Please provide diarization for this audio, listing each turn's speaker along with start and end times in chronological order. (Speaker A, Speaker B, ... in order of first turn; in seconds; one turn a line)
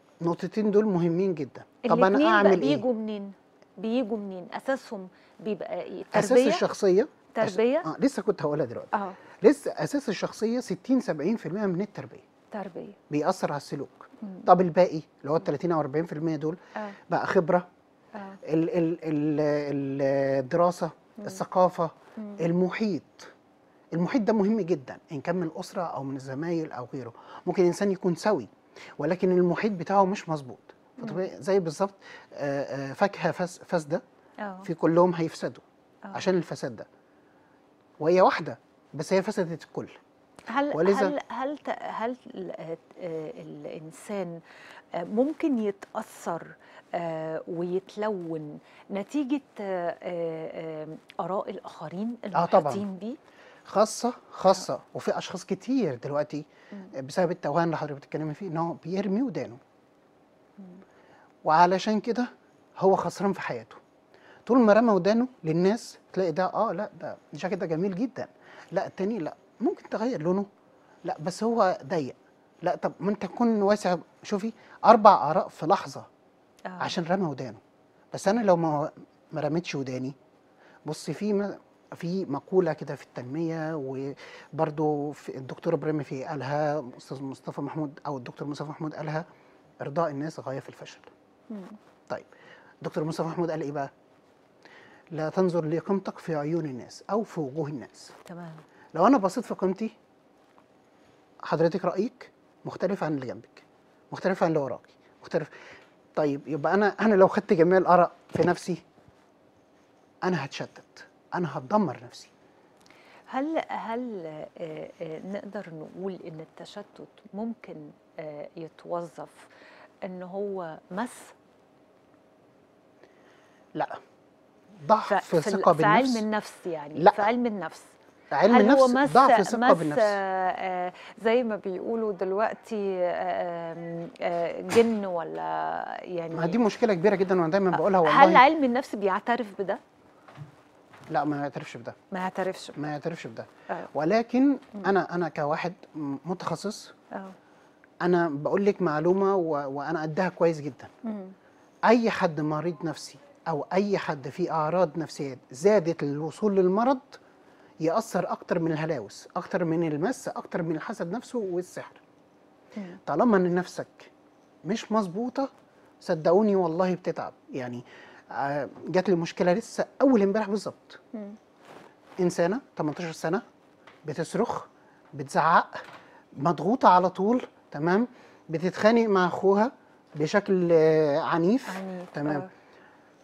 Speaker A: 0.2-2.9
Speaker B: 1.8-6.6
Speaker A: 6.1-12.2
Speaker B: 7.3-7.9
Speaker B: 8.9-9.2
Speaker B: 12.5-13.0
Speaker A: 13.1-17.7
Speaker B: 14.2-14.5
Speaker B: 18.1-18.4
Speaker A: 18.4-23.3
Speaker A: 23.9-34.0
Speaker B: 31.0-31.3
Speaker B: 34.4-34.7
Speaker A: 34.6-36.9
Speaker A: 38.0-40.0
Speaker B: 40.5-44.4
Speaker A: 40.7-41.1
Speaker B: 45.0-53.2
Speaker A: 52.3-52.9
Speaker A: 53.7-59.6
Speaker A: 61.5-63.8
Speaker A: 64.5-70.5
Speaker A: 71.0-76.1
Speaker B: 76.7-76.9
Speaker A: 76.8-77.6
Speaker A: 78.1-80.2
Speaker A: 80.8-89.2
Speaker A: 89.8-91.1
Speaker B: 91.5-91.8
Speaker A: 92.8-93.9
Speaker A: 95.1-98.1
Speaker B: 98.3-98.6
Speaker A: 98.9-99.9
Speaker A: 101.5-105.5
Speaker A: 106.2-108.8
Speaker A: 110.2-112.3
Speaker B: 113.3-119.5
Speaker B: 120.0-121.4
Speaker A: 124.8-126.2
Speaker B: 125.1-127.9
Speaker A: 127.0-127.2
Speaker A: 128.3-130.2
Speaker B: 128.5-136.6
Speaker A: 136.3-138.4
Speaker B: 137.7-139.8
Speaker A: 141.1-142.0
Speaker B: 142.1-142.9
Speaker A: 142.8-146.9
Speaker A: 148.0-150.9
Speaker B: 151.1-151.3
Speaker A: 151.9-157.2
Speaker A: 157.8-162.0
Speaker A: 163.1-164.1
Speaker A: 164.7-165.5
Speaker A: 166.0-171.0
Speaker A: 172.2-173.4
Speaker A: 174.1-175.8
Speaker A: 176.4-182.4
Speaker B: 181.7-182.5